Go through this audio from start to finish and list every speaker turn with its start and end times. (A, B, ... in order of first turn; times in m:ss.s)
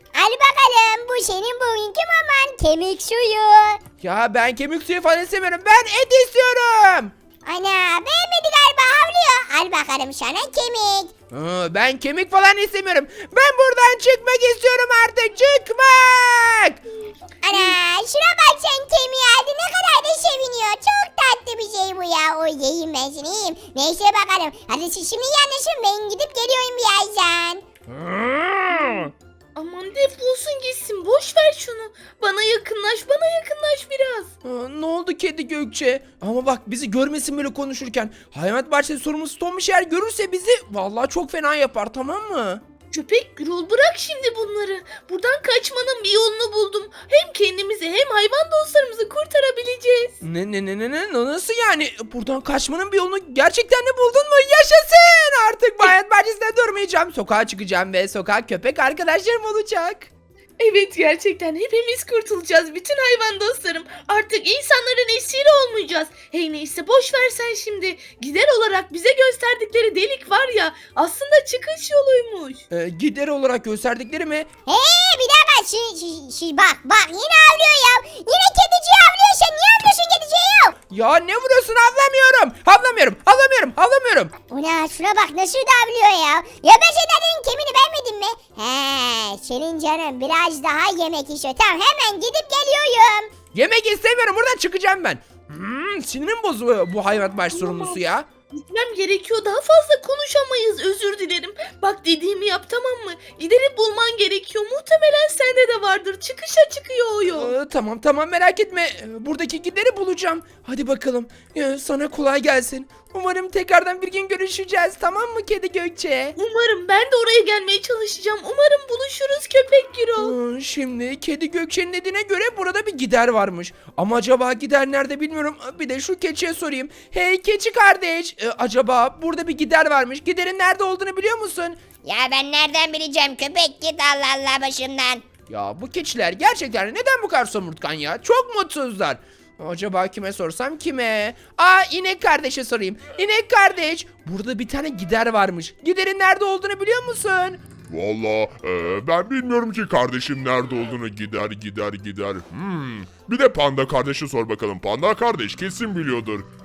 0:00.1-0:03.8 A
0:04.0-0:07.1 B
0:07.4-0:11.1 A
0:11.3-0:16.8 B
0:17.4-0:27.6 A
0:17.5-0:17.7 C
0:27.9-0:29.1 B
0:28.7-0:34.3 C
0:34.4-0:42.6 B
0:42.9-0:50.1 C
0:50.2-1:00.1 B
1:00.6-1:12.6 C
1:12.7-1:14.5 B
1:14.7-1:20.7 A
1:20.9-1:24.3 B
1:24.5-1:33.3 A
1:33.5-1:38.3 B
1:37.5-1:38.0 C
1:38.5-1:47.5 C
1:47.3-1:56.3 B
1:56.4-2:00.3 C
2:00.2-2:11.8 B
2:12.0-2:15.2 A
2:15.5-2:27.6 B
2:27.9-2:36.4 D